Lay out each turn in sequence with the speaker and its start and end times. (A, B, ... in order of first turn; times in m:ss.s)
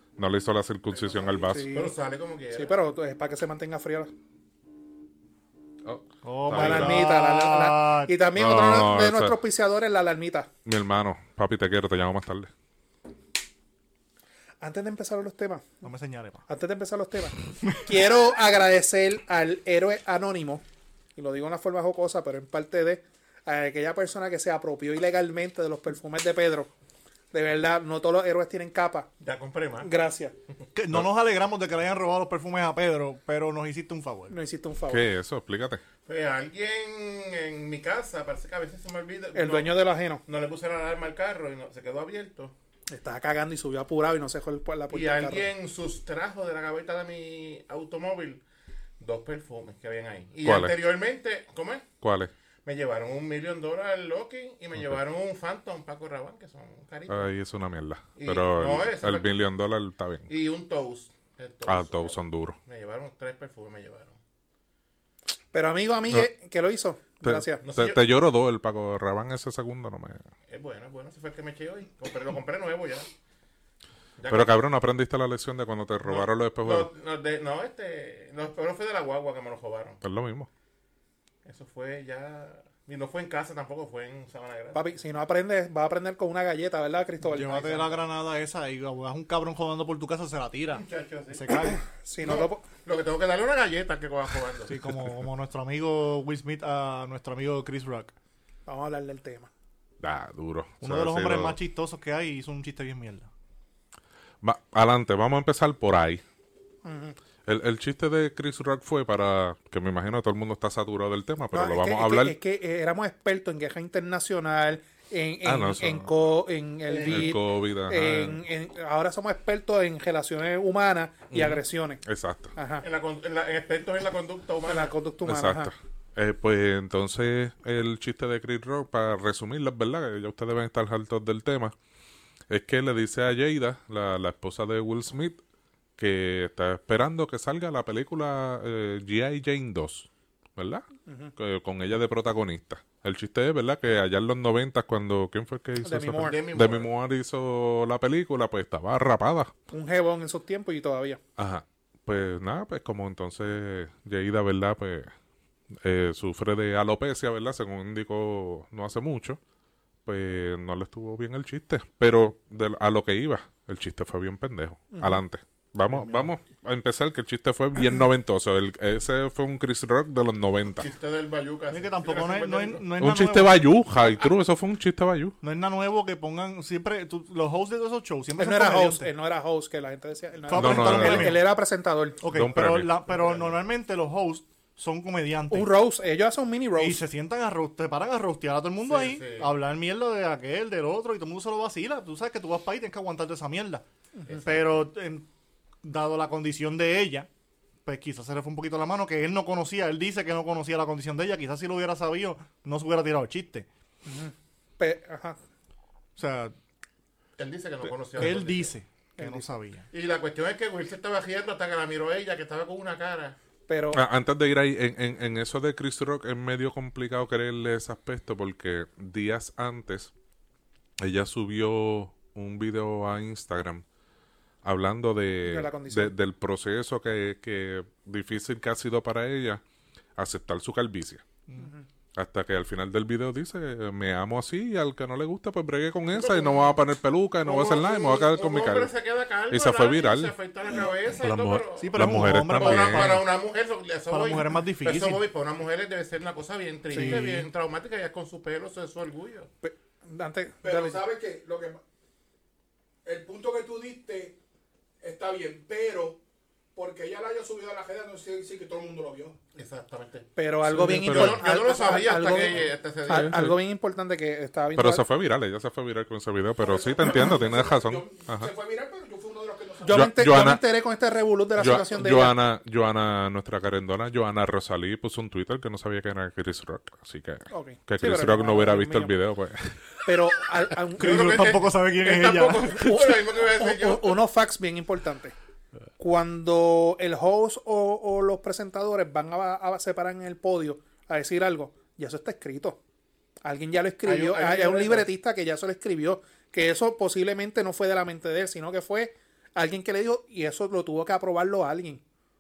0:00.2-0:01.7 A
0:01.4-0:02.0 B
0:01.7-0:02.7 C
0:02.5-0:04.1 B
0:05.8-0:07.0 A
0:06.2-0:08.2 D
0:06.5-0:10.5 B
0:08.4-0:09.4 A
0:10.6-0:12.5 A
0:14.6-0:15.8 B
0:15.8-0:16.4 D
0:16.5-0:20.6 B
0:21.2-0:26.7 B
0:27.3-0:29.1 B
0:29.2-0:29.9 C
0:29.8-0:30.3 B
0:30.8-0:34.4 D
0:34.3-0:35.1 B
0:34.9-0:35.8 A
0:36.1-0:39.7 C
0:39.3-0:40.2 B
0:40.2-0:42.5 C
0:42.9-0:45.5 B
0:44.9-0:48.4 C
0:49.0-0:51.9 C
0:50.4-0:50.8 A
0:52.0-0:52.3 A
0:52.6-0:57.3 C
0:57.1-1:00.3 A
0:58.2-0:59.3 C
1:00.3-1:04.2 C
1:01.6-1:02.6 A
1:05.5-1:07.6 B
1:07.2-1:10.2 A
1:07.6-1:08.0 C
1:10.5-1:13.1 C
1:14.2-1:14.6 C
1:14.3-1:16.9 A
1:16.1-1:20.0 C
1:20.0-1:20.5 A
1:21.4-1:24.8 C
1:24.7-1:28.0 B
1:27.2-1:31.8 D
1:30.7-1:34.8 C
1:31.9-1:32.6 B
1:34.7-1:38.1 D
1:38.7-1:39.5 B
1:40.0-1:41.6 A
1:40.8-1:43.3 D
1:44.4-1:46.2 A
1:46.8-1:47.2 B
1:47.5-1:52.4 A
1:51.5-2:02.0 B
1:55.4-1:56.1 A
1:56.9-1:57.4 C
1:57.1-1:58.4 A
2:01.3-2:02.5 A
2:02.6-2:02.8 B
2:02.8-2:04.9 C
2:04.7-2:05.7 B
2:05.3-2:11.7 A
2:12.5-2:15.4 A
2:16.0-2:29.5 A
2:21.1-2:21.3 B
2:25.8-2:26.4 B
2:26.2-2:26.9 C
2:29.7-2:31.2 B
2:31.4-2:35.1 A
2:35.8-2:39.4 A
2:40.1-2:50.9 A
2:44.9-2:45.2 B
2:45.9-2:46.3 D
2:50.8-2:52.9 C
2:51.7-2:53.7 D
2:53.0-2:55.4 A
2:54.0-2:54.3 C
2:55.4-2:59.1 D
2:58.4-3:02.2 B
3:00.5-3:01.4 D
3:00.5-3:01.4 A
3:02.2-3:05.8 D
3:02.3-3:02.9 A
3:03.1-3:03.5 C
3:05.5-3:07.0 B
3:06.8-3:13.8 D
3:08.9-3:09.5 C
3:14.3-3:14.8 C
3:14.4-3:15.3 D
3:15.8-3:17.3 D
3:17.8-3:23.7 D
3:24.1-3:25.4 B
3:26.2-3:26.6 D
3:27.4-3:28.7 C
3:28.2-3:29.9 D
3:29.2-3:29.5 B
3:29.9-3:33.4 C
3:33.7-3:34.0 B
3:33.9-3:40.1 A
3:41.0-3:43.8 A
3:44.6-3:49.6 A
3:45.4-3:46.2 B
3:50.2-3:51.2 A
3:51.6-3:51.8 B
3:52.2-3:58.9 A
3:56.1-3:56.8 C
3:57.4-4:09.5 C
3:59.5-4:00.4 A
4:01.2-4:03.2 A
4:01.8-4:03.3 D
4:04.1-4:05.2 D
4:06.9-4:07.3 B
4:06.9-4:07.5 D
4:09.6-4:11.0 B
4:10.6-4:11.8 E
4:13.0-4:14.4 E
4:15.0-4:16.2 E
4:16.8-4:19.4 E
4:19.6-4:23.6 C
4:20.4-4:25.0 B
4:20.7-4:21.5 A
4:24.8-4:28.5 A
4:26.6-4:30.2 E
4:29.8-4:32.4 B
4:29.9-4:30.6 A
4:31.6-4:39.8 A
4:37.5-4:39.2 B
4:40.0-4:41.5 B
4:41.0-4:43.0 D
4:41.0-4:44.2 C
4:42.8-4:45.4 B
4:46.0-4:52.8 B
4:53.4-5:02.0 B
4:54.1-4:55.1 C